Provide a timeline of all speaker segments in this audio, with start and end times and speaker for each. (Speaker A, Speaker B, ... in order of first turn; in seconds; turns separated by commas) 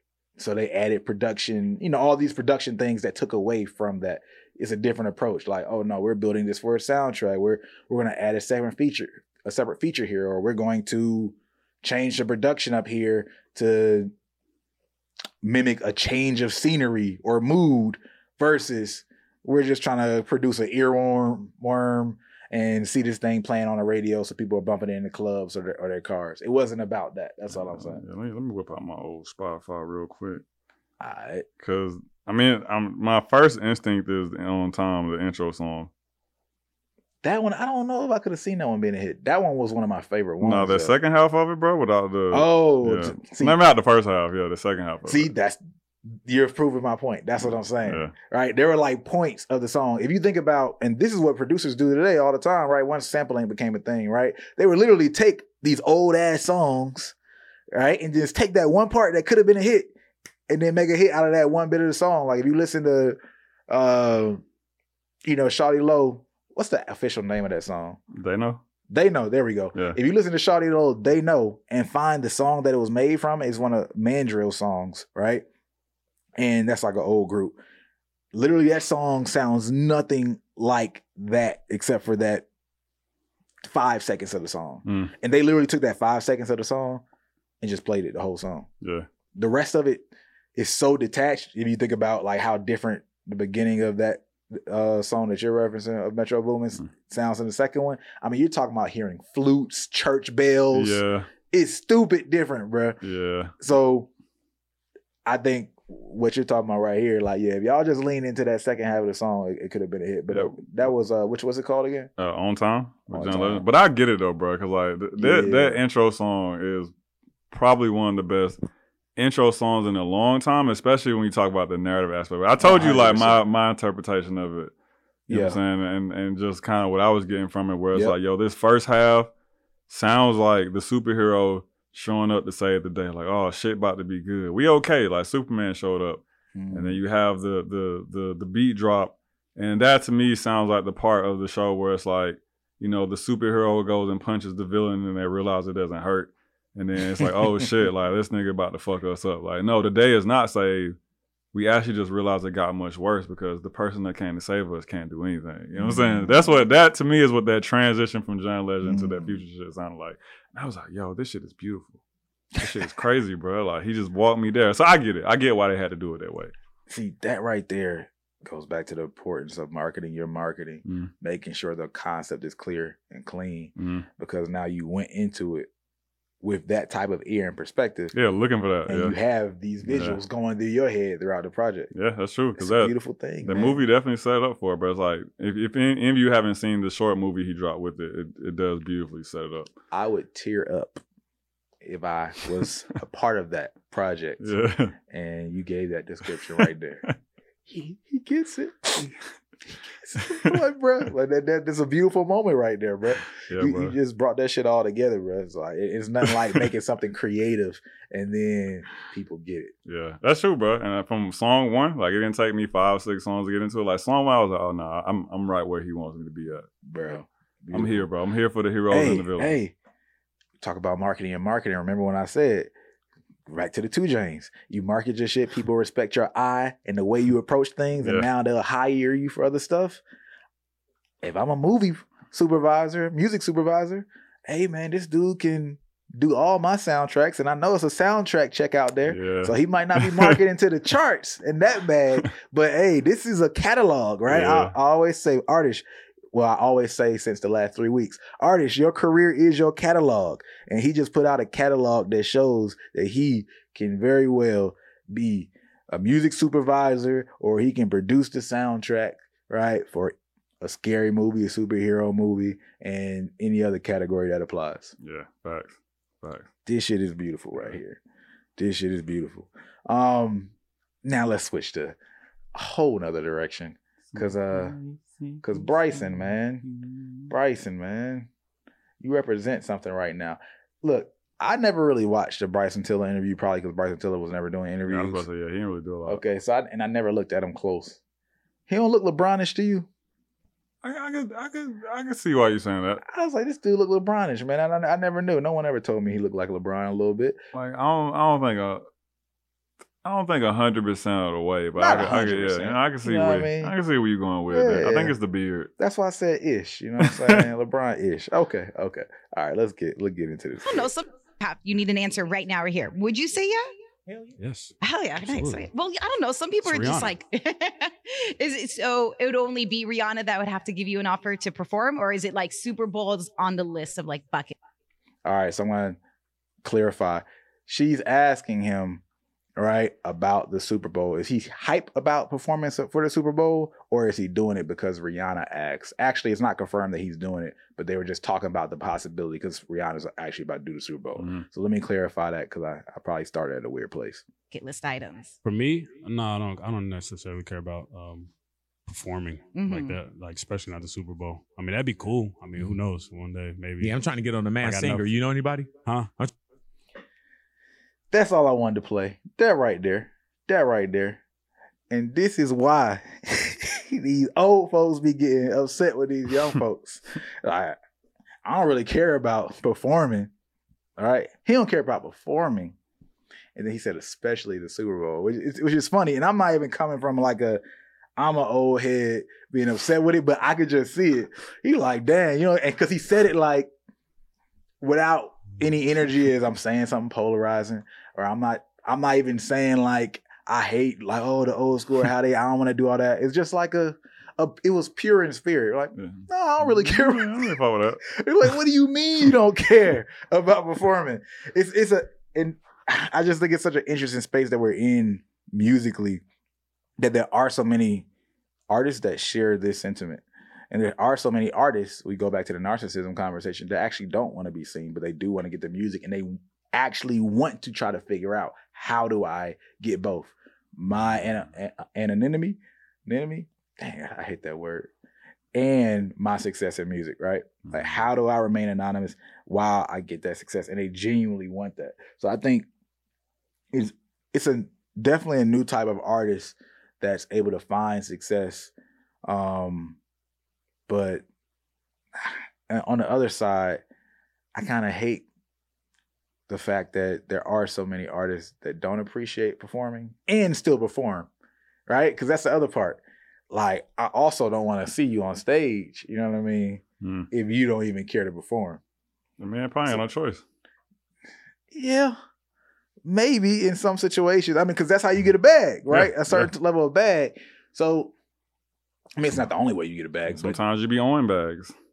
Speaker A: 0.4-14.1, Speaker A: 15.4-28.0, Speaker B: 27.5-30.4, Speaker A: 31.0-31.5, Speaker B: 31.6-35.9, Speaker A: 37.2-40.9, Speaker B: 40.4-45.3, Speaker A: 42.3-43.6, Speaker A: 45.1-57.1, Speaker B: 47.8-48.1, Speaker A: 57.7-59.9, Speaker A: 60.5-63.2, Speaker A: 63.7-64.4, Speaker A: 65.2-68.0, Speaker B: 68.1-68.6, Speaker A: 68.9-75.5, Speaker A: 76.4-77.6, Speaker A: 78.3-82.5, Speaker A: 83.6-87.0, Speaker B: 84.9-85.1, Speaker A: 87.6-88.7, Speaker B: 88.8-89.1, Speaker A: 89.3-103.0, Speaker B: 100.7-101.3, Speaker B: 103.0-103.5, Speaker A: 103.6-104.1, Speaker A: 105.3-112.1, Speaker B: 110.3-110.6, Speaker B: 112.2-116.9, Speaker A: 113.1-113.6, Speaker A: 115.2-115.8, Speaker B: 117.5-118.6, Speaker B: 119.2-124.7, Speaker A: 122.6-123.4, Speaker A: 125.3-125.6, Speaker B: 125.3-129.3, Speaker B: 129.9-151.0, Speaker A: 136.6-137.0, Speaker B: 151.5-162.0, Speaker A: 155.8-156.5, Speaker A: 158.8-159.4, Speaker A: 162.6-162.9, Speaker B: 162.6-166.5, Speaker A: 166.9-175.7, Speaker B: 170.9-171.1, Speaker B: 173.8-174.1, Speaker A: 176.4-178.1, Speaker B: 178.1-179.2, Speaker A: 178.9-181.9, Speaker B: 179.8-180.2, Speaker B: 181.9-189.7, Speaker A: 182.6-183.8, Speaker A: 189.9-191.0, Speaker A: 191.8-194.5, Speaker B: 194.4-194.9, Speaker A: 195.1-197.1, Speaker A: 197.7-199.2, Speaker A: 200.0-209.7, Speaker B: 203.5-204.0, Speaker B: 209.9-216.7, Speaker A: 216.9-218.0, Speaker B: 217.7-219.6, Speaker A: 218.9-219.7, Speaker A: 220.6-222.7, Speaker A: 223.5-230.0, Speaker B: 228.0-228.3, Speaker A: 231.2-264.9, Speaker B: 239.1-240.4, Speaker B: 244.3-244.8, Speaker B: 265.0-266.5, Speaker A: 266.7-268.0, Speaker A: 268.6-270.5, Speaker A: 271.0-272.0, Speaker A: 272.6-274.8, Speaker B: 274.1-277.3, Speaker A: 275.4-276.6, Speaker A: 277.3-278.3, Speaker A: 279.0-285.2, Speaker B: 284.9-286.2, Speaker A: 286.1-288.0, Speaker A: 288.7-289.9, Speaker B: 290.8-293.0, Speaker A: 293.0-297.4, Speaker B: 297.5-298.8, Speaker B: 300.0-305.7, Speaker A: 301.8-303.7, Speaker A: 304.5-305.2, Speaker A: 305.8-310.9, Speaker B: 307.0-307.4, Speaker C: 310.6-313.7, Speaker D: 314.4-315.7, Speaker C: 314.8-324.5, Speaker D: 316.6-317.1, Speaker A: 325.2-326.0, Speaker A: 326.6-329.0, Speaker A: 329.6-344.2, Speaker B: 341.2-341.5, Speaker C: 344.5-345.4, Speaker D: 345.4-348.3, Speaker D: 348.9-354.0, Speaker C: 349.6-350.0, Speaker E: 353.8-356.3, Speaker D: 354.6-355.1, Speaker D: 355.8-356.1, Speaker A: 358.1-361.2, Speaker A: 361.9-367.8, Speaker A: 368.4-370.3, Speaker A: 371.0-372.8, Speaker A: 373.6-377.6, Speaker A: 378.2-383.7, Speaker A: 384.8-397.5, Speaker B: 396.0-398.0, Speaker A: 398.1-406.2, Speaker A: 407.0-408.1, Speaker A: 408.7-424.9, Speaker B: 420.9-421.5, Speaker A: 425.5-432.7, Speaker B: 427.6-428.1, Speaker A: 433.7-438.7, Speaker A: 439.3-440.0, Speaker A: 440.9-441.2, Speaker A: 442.2-443.8, Speaker A: 444.6-445.2, Speaker A: 446.5-451.3, Speaker A: 451.9-458.8, Speaker B: 457.0-457.3, Speaker B: 459.4-460.4, Speaker A: 461.7-462.2, Speaker A: 463.1-468.1, Speaker B: 465.9-466.5, Speaker A: 469.2-470.6, Speaker B: 470.3-471.7